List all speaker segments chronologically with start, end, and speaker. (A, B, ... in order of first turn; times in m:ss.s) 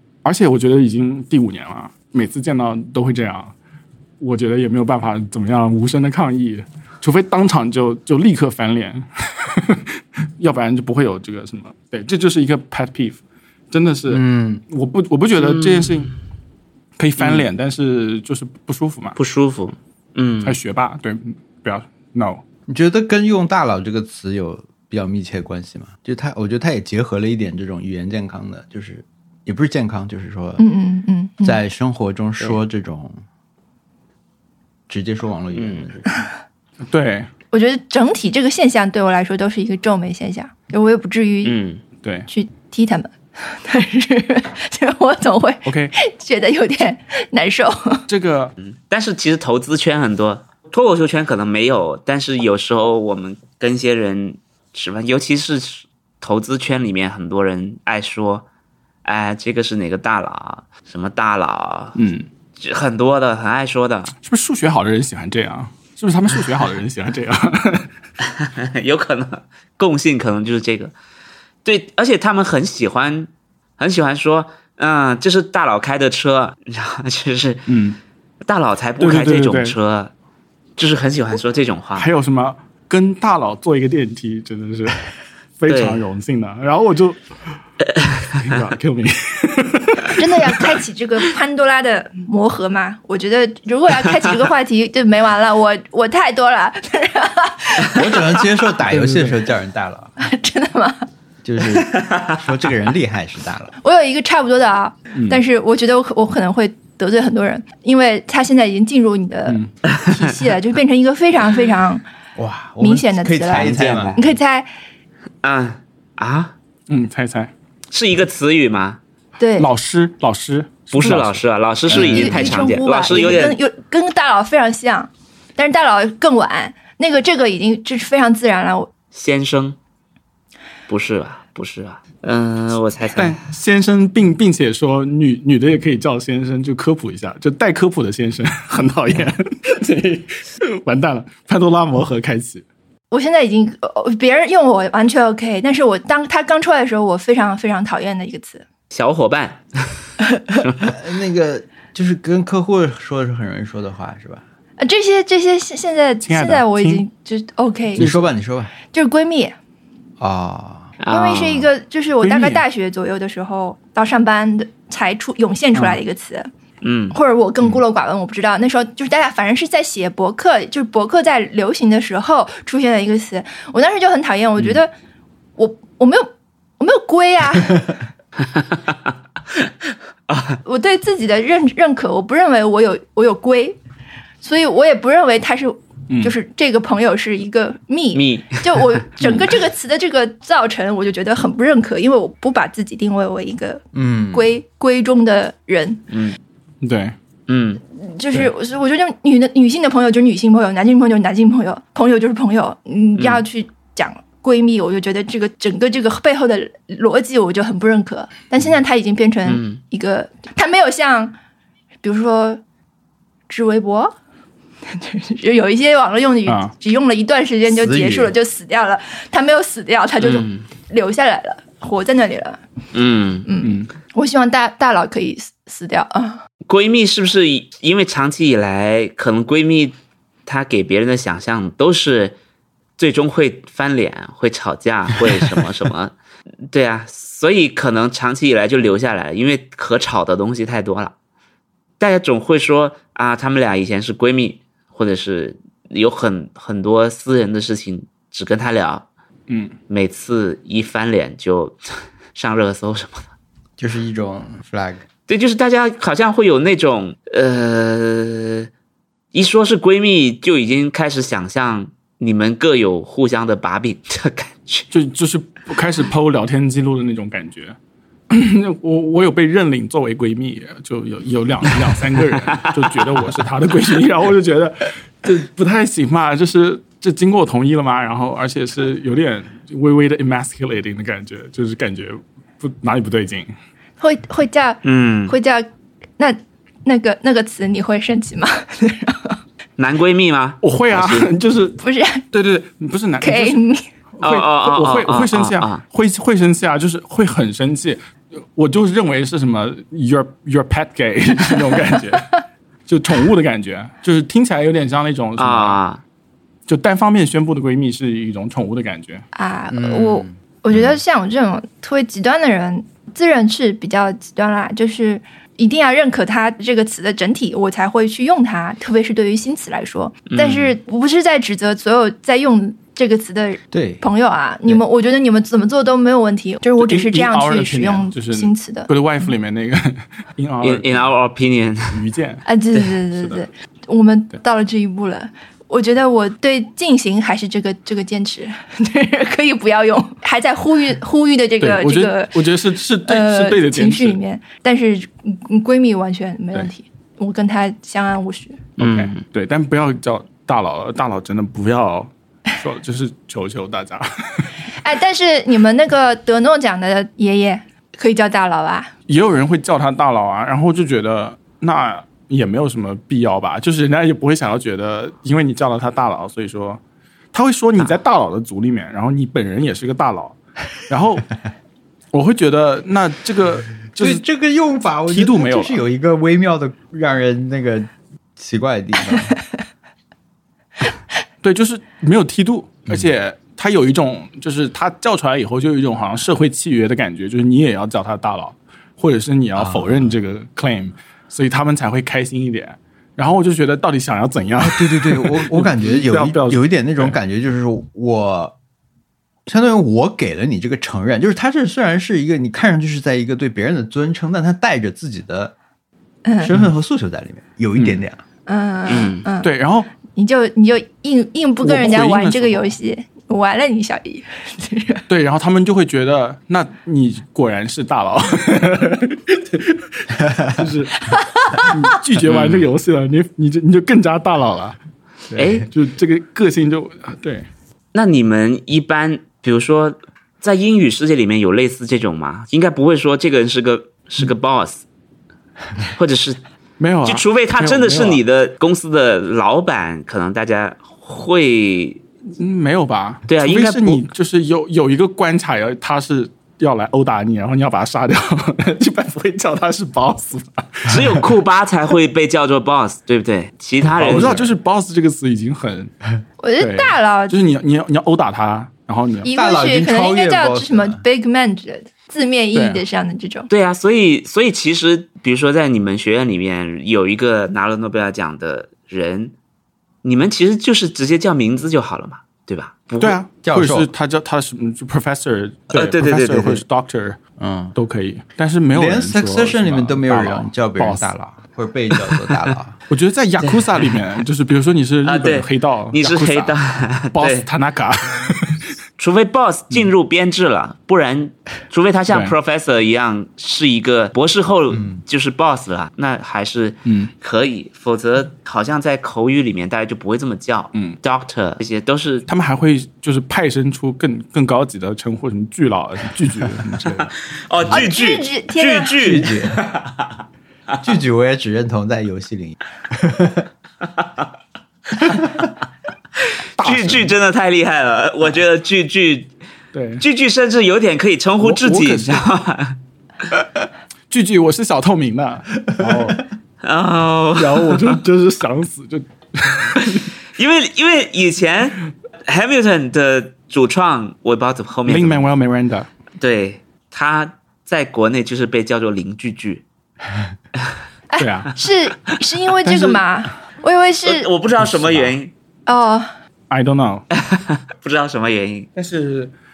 0:00.2-0:03.5 A
0:04.2-0:13.2 A
0:13.7-0:16.1 A
0:14.1-0:14.6 B
0:15.4-0:16.2 C
0:17.0-0:19.2 A
0:17.2-0:17.5 C
0:19.2-0:20.6 C
0:20.4-0:22.4 A
0:22.7-0:30.6 B
0:30.6-0:31.6 D
0:31.4-0:33.2 B
0:34.9-0:36.1 B
0:35.6-0:35.9 C
0:36.8-0:37.3 A
0:37.5-0:41.6 D
0:41.4-0:41.8 C
0:42.0-0:42.3 A
0:42.3-0:48.0 D
0:45.6-0:45.9 A
0:48.1-0:48.5 A
0:48.6-0:58.5 C
0:59.0-1:02.0 C
1:02.0-1:02.3 A
1:02.6-1:04.1 C
1:04.2-1:07.9 A
1:08.2-1:10.9 C
1:11.6-1:17.7 C
1:17.7-1:18.0 A
1:18.5-1:20.1 C
1:19.0-1:19.8 A
1:20.8-1:22.1 C
1:22.0-1:25.0 A
1:25.6-1:27.2 A
1:25.7-1:26.0 C
1:27.9-1:28.6 C
1:28.4-1:30.6 A
1:30.2-1:38.5 D
1:37.9-1:40.1 B
1:38.9-1:39.4 A
1:40.2-1:41.1 D
1:41.4-1:43.7 B
1:41.9-1:42.3 C
1:43.8-1:52.0 D
1:45.1-1:45.4 A
1:49.5-1:49.7 A
1:49.9-1:50.3 C
1:52.4-1:54.2 B
1:52.8-1:54.7 D
1:53.5-1:54.2 C
1:55.4-1:56.5 C
1:56.9-1:57.5 A
1:57.9-1:59.0 C
1:59.4-1:59.7 D
1:59.6-2:01.4 A
2:00.9-2:03.6 C
2:01.9-2:02.6 B
2:01.9-2:08.9 D
2:09.1-2:09.8 C
2:10.9-2:13.4 C
2:13.2-2:22.6 A
2:23.1-2:28.6 D
2:28.9-2:30.1 C
2:30.6-2:31.0 C
2:30.8-2:34.4 B
2:34.8-2:38.1 D
2:36.2-2:37.0 A
2:38.0-2:38.3 A
2:38.0-2:38.7 B
2:38.9-2:39.6 D
2:40.2-2:40.9 B
2:41.0-2:41.7 C
2:41.1-2:46.5 D
2:42.2-2:42.6 A
2:46.8-2:47.2 C
2:47.1-2:54.9 D
2:55.6-2:56.3 D
2:56.8-2:58.0 D
2:58.4-2:58.8 C
3:00.3-3:00.6 C
3:00.6-3:03.8 D
3:04.4-3:16.0 D
3:06.1-3:06.4 A
3:08.1-3:09.5 C
3:13.9-3:14.5 B
3:16.1-3:16.4 C
3:16.8-3:17.2 A
3:17.5-3:17.8 C
3:18.0-3:31.3 D
3:23.2-3:23.4 C
3:29.5-3:29.8 C
3:32.0-3:32.6 D
3:33.5-3:34.1 D
3:34.9-3:42.6 D
3:36.5-3:36.7 A
3:37.7-3:38.3 B
3:40.2-3:40.7 C
3:42.9-3:43.5 C
3:43.5-3:46.4 D
3:43.6-3:43.9 A
3:46.7-3:50.0 C
3:50.5-3:52.4 C
3:53.0-3:56.1 C
3:56.7-4:01.1 C
4:02.0-4:09.0 C
4:09.5-4:09.7 A
4:09.9-4:11.8 C
4:12.4-4:13.3 C
4:13.8-4:15.0 B
4:15.3-4:18.7 C
4:19.3-4:24.9 C
4:24.9-4:27.8 A
4:28.3-4:43.5 A
4:44.0-4:45.7 D
4:44.8-4:45.4 C
4:46.2-4:49.4 D
4:49.8-4:51.3 C
4:50.6-4:51.8 A
4:51.8-4:52.3 D
4:52.3-4:53.6 A
4:53.2-4:53.8 D
4:54.2-5:02.3 A
4:54.2-4:55.8 C
5:01.7-5:02.2 D
5:02.9-5:05.8 A
5:05.4-5:06.0 C
5:06.7-5:09.2 A
5:09.3-5:28.9 D
5:09.7-5:10.9 B
5:20.3-5:20.8 C
5:23.7-5:24.0 B
5:26.8-5:31.1 A
5:30.6-5:32.0 C
5:31.9-5:32.4 A
5:32.5-5:42.4 D
5:33.1-5:33.4 A
5:41.6-5:44.2 A
5:43.0-5:48.6 D
5:48.8-5:49.2 C
5:48.8-5:54.5 A
5:54.8-5:58.9 D
5:59.1-6:06.8 A
6:07.3-6:11.3 A
6:12.1-6:14.2 A
6:14.0-6:19.4 B
6:15.1-6:15.8 A
6:21.4-6:37.2 A
6:29.6-6:30.1 B
6:34.6-6:38.6 B
6:39.5-6:45.5 B
6:46.2-6:46.5 D
6:46.4-6:48.2 B
6:47.8-6:48.0 A
6:48.5-6:49.5 D
6:48.9-6:49.3 C
6:49.4-6:49.9 A
6:50.1-6:55.0 D
6:51.6-6:52.7 A
6:55.1-7:04.8 A
7:01.1-7:01.7 D
7:02.2-7:02.7 C
7:05.4-7:05.7 C
7:05.7-7:07.5 A
7:07.9-7:14.8 C
7:15.8-7:16.4 C
7:16.8-7:18.2 A
7:17.0-7:22.0 C
7:22.4-7:31.3 A
7:23.3-7:24.0 C
7:30.9-7:34.4 C
7:34.0-7:35.9 A
7:34.1-7:34.4 B
7:36.4-7:37.4 D
7:36.6-7:39.3 A
7:39.2-7:43.5 D
7:39.3-7:41.0 B
7:42.5-7:42.8 A
7:43.5-7:49.3 C
7:50.0-7:53.2 C
7:53.0-7:57.2 A
7:53.4-7:53.9 B
7:55.7-7:56.6 C
7:57.4-7:57.8 B
7:57.8-8:01.1 A
7:58.7-8:02.8 B
8:02.9-8:06.6 A
8:03.4-8:03.7 C
8:05.0-8:07.5 C
8:07.1-8:08.7 A
8:09.0-8:22.3 C
8:12.1-8:12.3 A
8:14.7-8:15.0 B
8:16.9-8:17.1 A
8:22.3-8:27.1 A
8:26.9-8:30.1 C
8:27.7-8:29.2 D
8:29.0-8:29.6 B
8:30.8-8:33.5 B
8:34.0-8:34.3 C
8:35.1-8:35.4 B
8:36.3-8:39.3 C
8:36.6-8:37.1 A
8:39.7-8:40.0 A
8:40.0-8:42.8 C
8:41.4-8:42.3 A
8:44.1-8:46.2 A
8:46.6-8:48.0 C
8:47.4-8:50.1 A
8:49.8-8:55.3 C
8:54.9-8:55.9 A
8:56.2-8:59.6 C
9:01.1-9:04.3 D
9:01.2-9:01.5 A
9:02.6-9:03.0 A
9:04.0-9:05.3 C
9:05.7-9:06.1 D
9:06.5-9:07.0 A
9:07.1-9:08.7 C
9:08.8-9:09.3 A